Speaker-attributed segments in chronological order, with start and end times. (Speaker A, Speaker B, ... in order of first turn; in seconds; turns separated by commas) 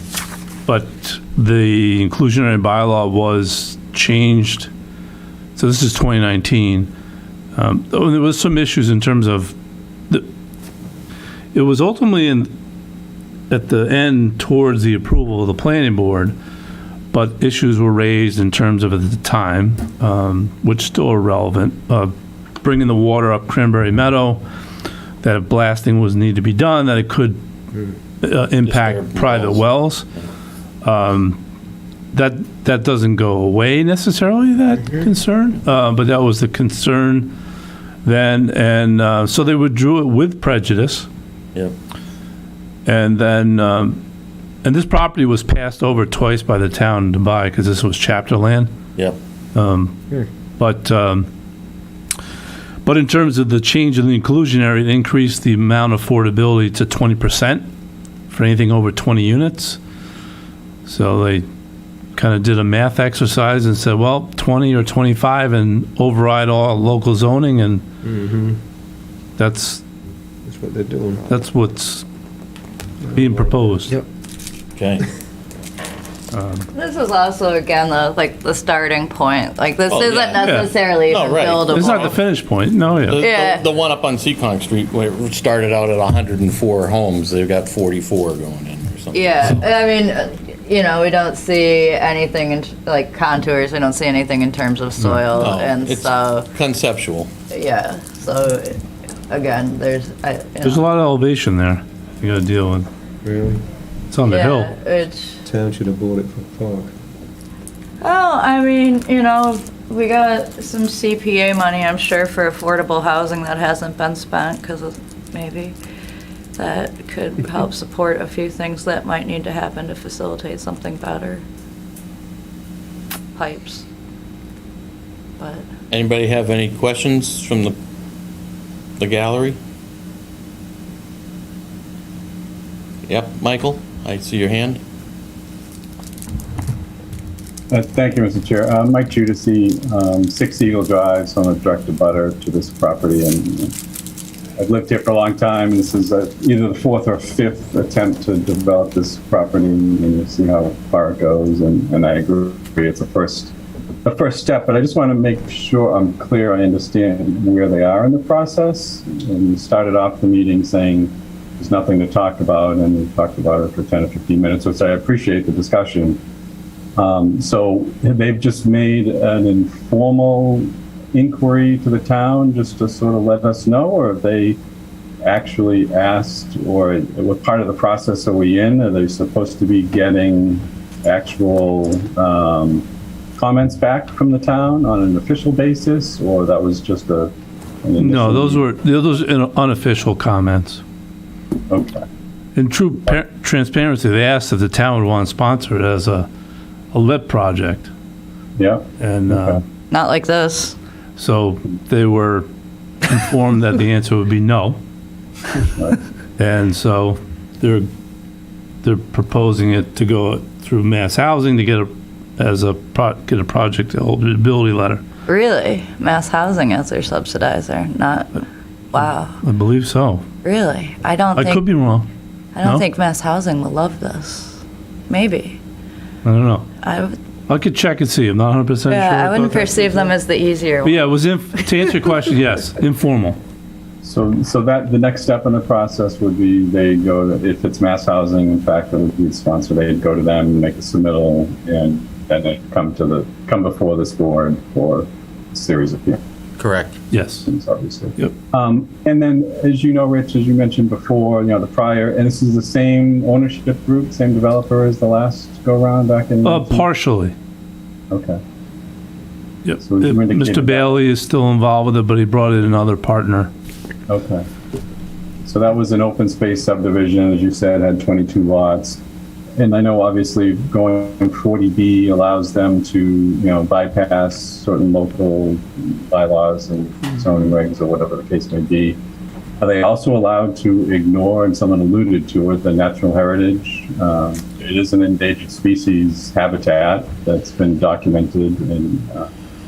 Speaker A: 0.7-4.7, Speaker A: 5.5-6.9, Speaker A: 7.5-9.6, Speaker A: 11.5-12.5, Speaker A: 13.5-16.4, Speaker A: 17.1-24.4, Speaker A: 25.2-27.4, Speaker A: 28.2-30.1, Speaker B: 28.6-29.6, Speaker A: 30.8-31.4, Speaker A: 32.1-37.3, Speaker A: 38.0-41.1, Speaker A: 42.9-44.0, Speaker A: 44.6-48.7, Speaker A: 49.5-50.0, Speaker A: 50.6-51.3, Speaker A: 52.8-57.6, Speaker A: 58.3-59.8, Speaker A: 60.9-61.5, Speaker A: 62.1-67.8, Speaker C: 68.0-68.6, Speaker A: 69.4-69.8, Speaker C: 70.5-71.2, Speaker A: 71.3-72.0, Speaker C: 73.1-74.0, Speaker A: 73.1-74.0, Speaker B: 74.8-75.0, Speaker A: 76.3-76.7, Speaker D: 76.7-82.2, Speaker B: 79.9-82.2, Speaker A: 80.4-80.7, Speaker A: 81.7-83.2, Speaker B: 83.1-89.6, Speaker D: 83.2-83.6, Speaker D: 89.1-96.5, Speaker B: 95.3-97.3, Speaker D: 97.5-100.8, Speaker A: 100.6-102.9, Speaker C: 103.2-103.6, Speaker A: 104.1-104.7, Speaker D: 104.2-105.4, Speaker C: 105.4-106.9, Speaker D: 108.0-115.8, Speaker D: 116.6-121.4, Speaker D: 123.3-123.8, Speaker D: 125.4-125.7, Speaker B: 125.9-127.7, Speaker B: 129.0-129.6, Speaker B: 133.1-134.8, Speaker E: 137.7-143.7, Speaker E: 144.6-166.2, Speaker E: 167.0-174.6, Speaker E: 175.2-187.3, Speaker E: 187.8-188.6, Speaker A: 188.0-190.8, Speaker E: 191.7-192.0, Speaker A: 192.6-196.3, Speaker A: 196.9-197.9, Speaker E: 198.6-199.6, Speaker A: 199.0-199.6, Speaker D: 199.9-200.8, Speaker A: 201.2-202.5, Speaker A: 203.0-204.8, Speaker A: 206.4-207.9, Speaker A: 208.8-215.0, Speaker D: 215.3-218.4, Speaker D: 218.9-219.4, Speaker A: 219.4-220.2, Speaker D: 220.4-221.6, Speaker A: 221.3-222.1, Speaker D: 222.5-225.6, Speaker A: 226.2-226.7, Speaker D: 226.8-227.2, Speaker A: 227.5-230.1, Speaker D: 228.8-231.2, Speaker A: 230.8-233.4, Speaker E: 234.0-246.2, Speaker B: 246.6-246.9, Speaker A: 247.1-247.5, Speaker E: 247.4-256.9, Speaker A: 256.4-257.3, Speaker E: 258.1-258.4, Speaker A: 259.6-263.5, Speaker E: 259.8-260.9, Speaker E: 264.1-264.4, Speaker E: 265.4-269.0, Speaker E: 269.6-279.0, Speaker E: 279.6-289.3